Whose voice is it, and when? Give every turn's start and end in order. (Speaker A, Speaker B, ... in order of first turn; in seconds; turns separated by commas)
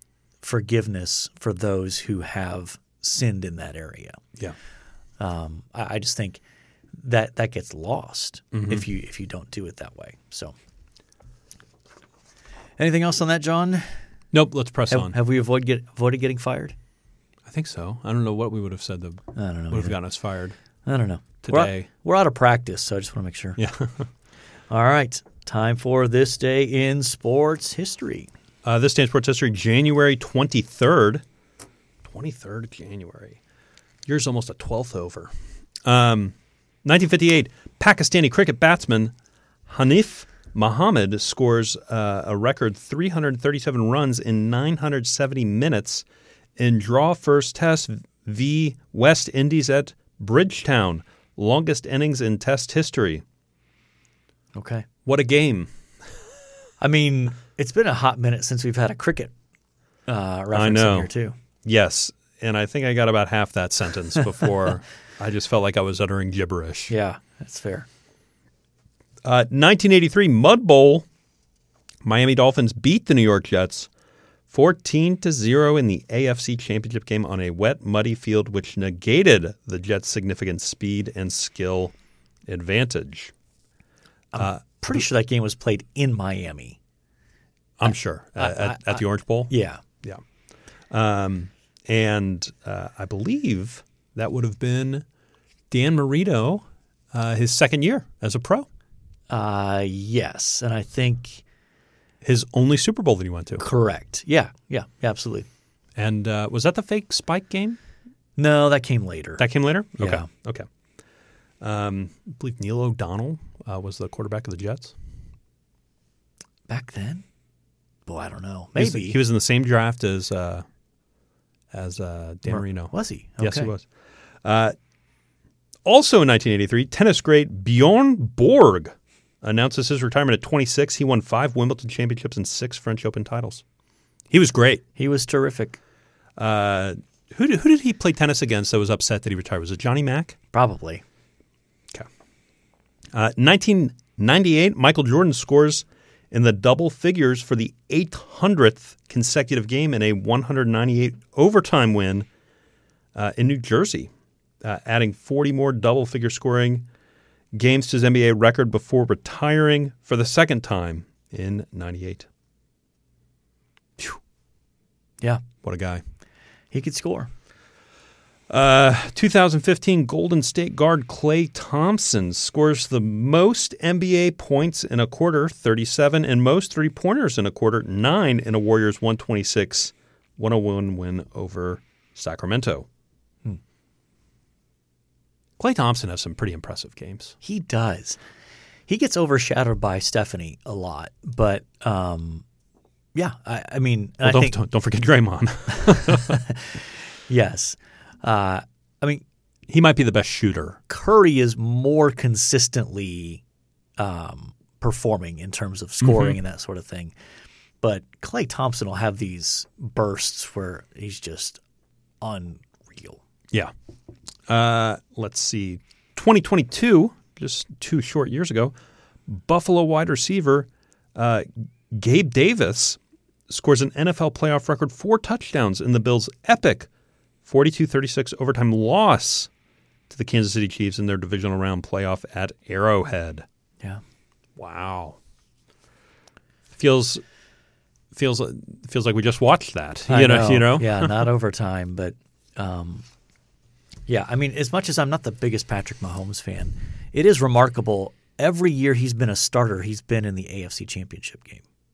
Speaker A: 0.4-4.2, Speaker A: 5.2-6.4, Speaker A: 6.9-10.5, Speaker B: 8.5-8.8, Speaker A: 12.8-13.8, Speaker B: 14.3-15.2, Speaker A: 14.9-16.7, Speaker B: 17.4-20.6, Speaker A: 19.3-20.0, Speaker A: 20.8-23.6, Speaker B: 21.4-21.9, Speaker B: 23.6-24.1, Speaker A: 24.7-28.3, Speaker B: 28.6-31.2, Speaker B: 32.0-33.4, Speaker B: 34.0-35.3, Speaker B: 35.8-39.1, Speaker B: 39.7-46.0, Speaker B: 46.6-53.2, Speaker A: 54.5-54.9, Speaker B: 55.0-55.7, Speaker A: 56.8-59.3, Speaker A: 60.1-61.3, Speaker B: 60.5-61.1, Speaker B: 61.6-66.9, Speaker A: 66.9-67.9, Speaker B: 69.2-71.0, Speaker B: 72.0-73.9, Speaker B: 74.5-81.9, Speaker B: 82.5-83.3, Speaker A: 84.3-86.8, Speaker B: 87.8-89.5, Speaker A: 87.8-89.8, Speaker B: 90.9-95.0, Speaker B: 95.7-98.7, Speaker A: 99.3-101.4, Speaker B: 102.2-103.6, Speaker A: 103.6-105.5, Speaker B: 106.0-107.8, Speaker A: 108.4-109.4, Speaker B: 109.4-110.7, Speaker A: 110.0-110.2, Speaker B: 111.6-115.0, Speaker A: 116.7-117.2, Speaker A: 118.0-119.2, Speaker B: 118.8-120.6, Speaker B: 121.7-123.8, Speaker A: 122.5-123.7, Speaker B: 124.4-124.7, Speaker B: 125.8-133.6, Speaker B: 134.3-134.8, Speaker A: 135.0-135.8, Speaker B: 136.4-140.3, Speaker A: 140.5-141.0, Speaker B: 143.1-152.3, Speaker B: 153.1-154.1, Speaker B: 154.6-156.9, Speaker B: 157.5-162.3, Speaker B: 165.6-166.0, Speaker A: 166.7-167.3, Speaker B: 168.5-182.9, Speaker B: 185.6-187.4, Speaker A: 187.4-188.2, Speaker A: 188.9-192.4, Speaker A: 193.1-194.6, Speaker B: 194.2-196.4, Speaker A: 195.9-199.2, Speaker B: 199.7-200.8, Speaker A: 200.9-203.4, Speaker A: 204.0-207.1, Speaker B: 206.0-206.4, Speaker A: 207.8-211.6, Speaker A: 212.2-213.2, Speaker B: 214.5-218.7, Speaker B: 219.3-226.9, Speaker B: 227.4-229.5, Speaker B: 230.1-233.4, Speaker B: 234.6-235.2, Speaker B: 236.7-237.2, Speaker B: 238.1-241.2, Speaker A: 240.1-243.0, Speaker A: 244.1-251.6